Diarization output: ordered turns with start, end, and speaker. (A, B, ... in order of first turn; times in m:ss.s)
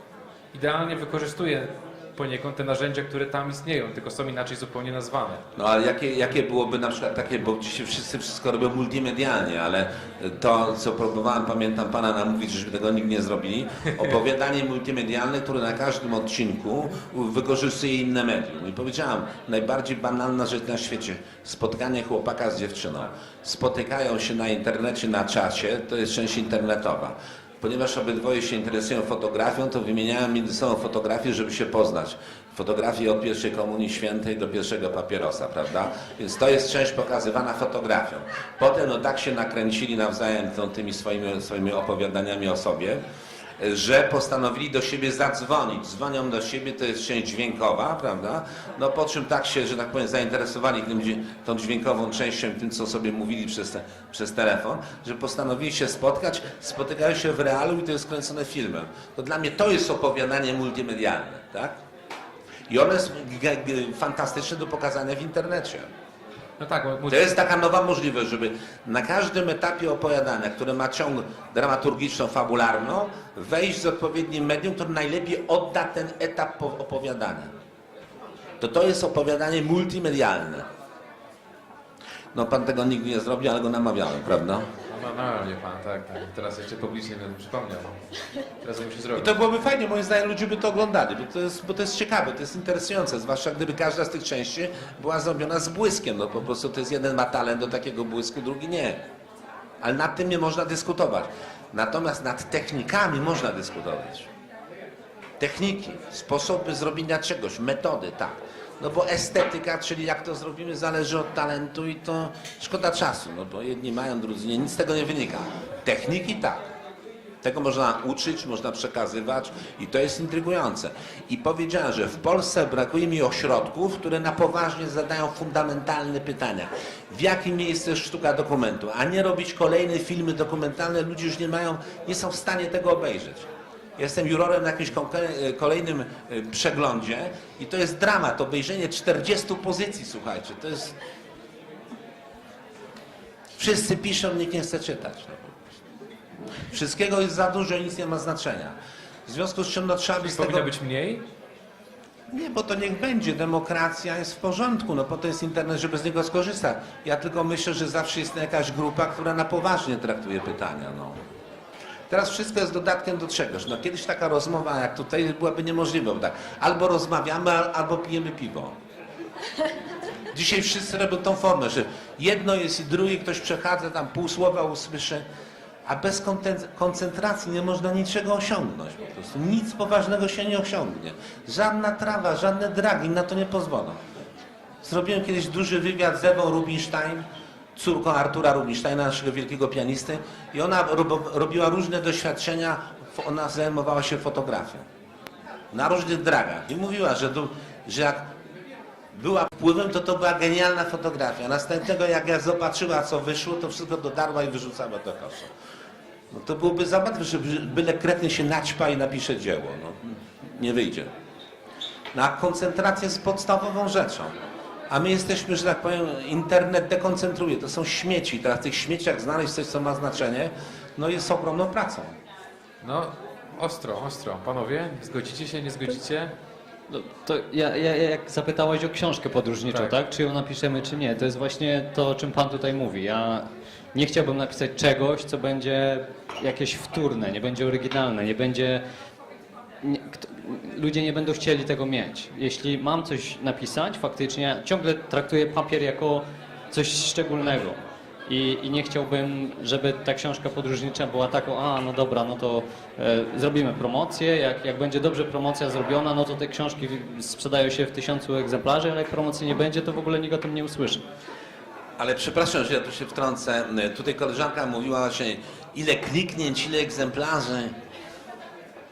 0:00.5-0:05.4 A
0:05.6-0:43.0 B
0:43.6-1:01.8 B
1:02.7-1:05.9 B
1:06.6-1:07.4 A
1:07.1-1:17.5 B
1:18.6-1:20.7 B
1:22.3-1:24.7 B
1:24.9-1:28.1 A
1:28.6-1:29.4 A
1:29.2-1:39.0 B
1:39.8-1:44.3 B
1:45.4-1:56.7 B
1:57.4-2:21.0 B
2:23.6-2:25.8 B
2:26.7-2:28.8 B
2:29.3-2:30.7 B
2:30.2-2:31.2 A
2:32.3-2:41.2 B
2:42.1-2:48.7 B
2:50.3-2:55.2 B
2:55.9-3:04.0 B
3:04.8-3:07.2 B
3:07.8-3:14.8 B
3:15.7-3:18.3 B
3:19.1-3:25.5 B
3:26.3-3:31.1 B
3:32.1-3:34.3 B
3:34.9-3:42.2 B
3:42.8-3:46.3 A
3:46.9-3:58.8 C
3:49.7-3:50.0 A
3:59.8-4:21.0 C
4:22.0-4:27.8 B